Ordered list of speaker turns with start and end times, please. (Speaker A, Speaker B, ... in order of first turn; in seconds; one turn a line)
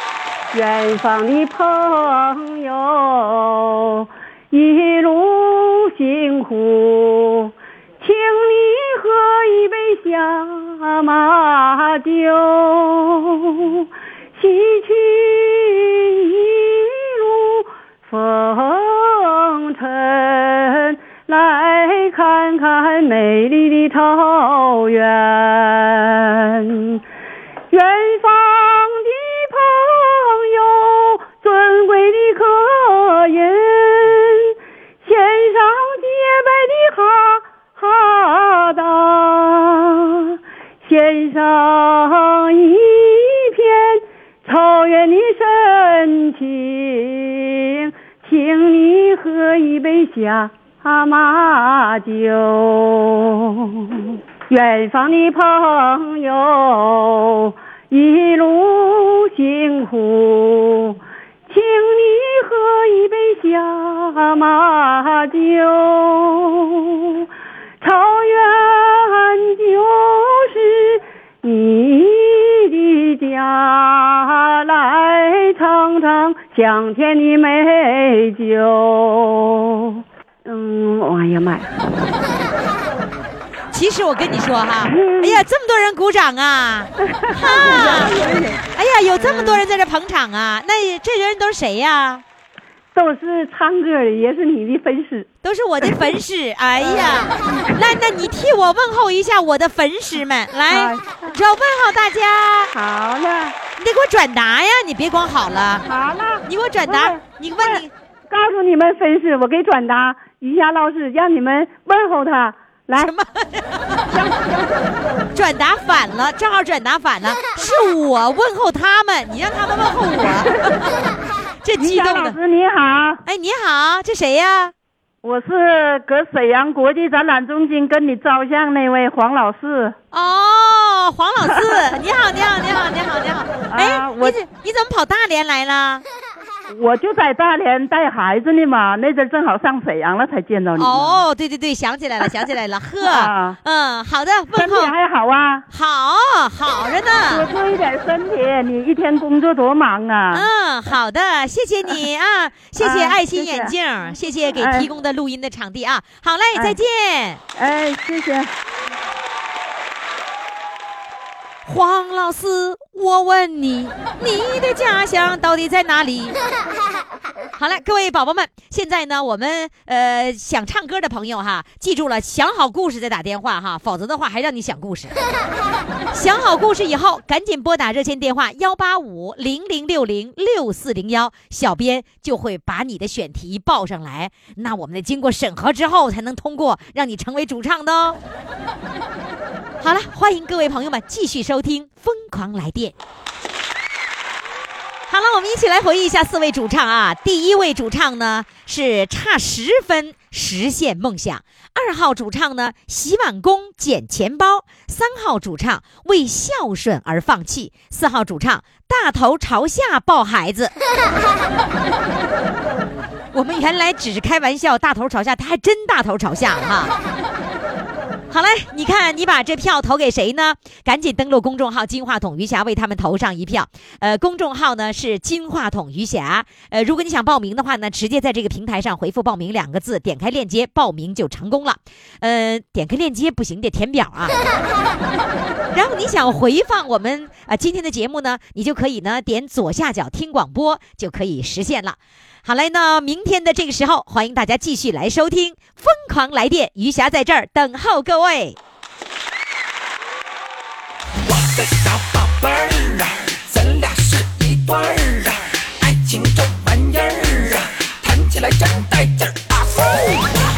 Speaker A: 0.5-27.0
Speaker A: 27.7-67.2
Speaker A: 67.8-82.1
Speaker B: 83.7-92.2
Speaker A: 84.8-85.4
Speaker A: 87.1-89.6
Speaker A: 92.9-95.3
Speaker B: 95.4-102.7
Speaker A: 96.8-97.9
Speaker A: 100.7-101.4
Speaker A: 102.7-103.5
Speaker B: 103.8-105.8
Speaker A: 105.8-113.1
Speaker B: 106.5-107.9
Speaker B: 113.0-114.2
Speaker A: 114.1-114.9
Speaker B: 115.3-121.0
Speaker A: 120.4-120.8
Speaker B: 121.6-122.4
Speaker A: 121.8-123.2
Speaker B: 123.2-124.7
Speaker A: 125.2-129.9
Speaker B: 130.1-136.0
Speaker A: 131.4-131.8
Speaker A: 133.7-134.4
Speaker A: 136.7-141.2
Speaker B: 140.8-144.9
Speaker A: 143.0-143.6
Speaker A: 144.5-145.7
Speaker B: 145.7-147.4
Speaker A: 147.3-150.5
Speaker B: 150.3-157.4
Speaker A: 152.8-153.7
Speaker A: 154.5-154.9
Speaker A: 157.5-158.5
Speaker B: 161.7-166.3
Speaker B: 167.6-175.1
Speaker B: 176.1-188.2
Speaker B: 189.8-192.9
Speaker B: 195.1-210.7
Speaker B: 213.3-216.9
Speaker B: 218.3-234.3
Speaker B: 235.7-248.6
Speaker C: 251.3-260.4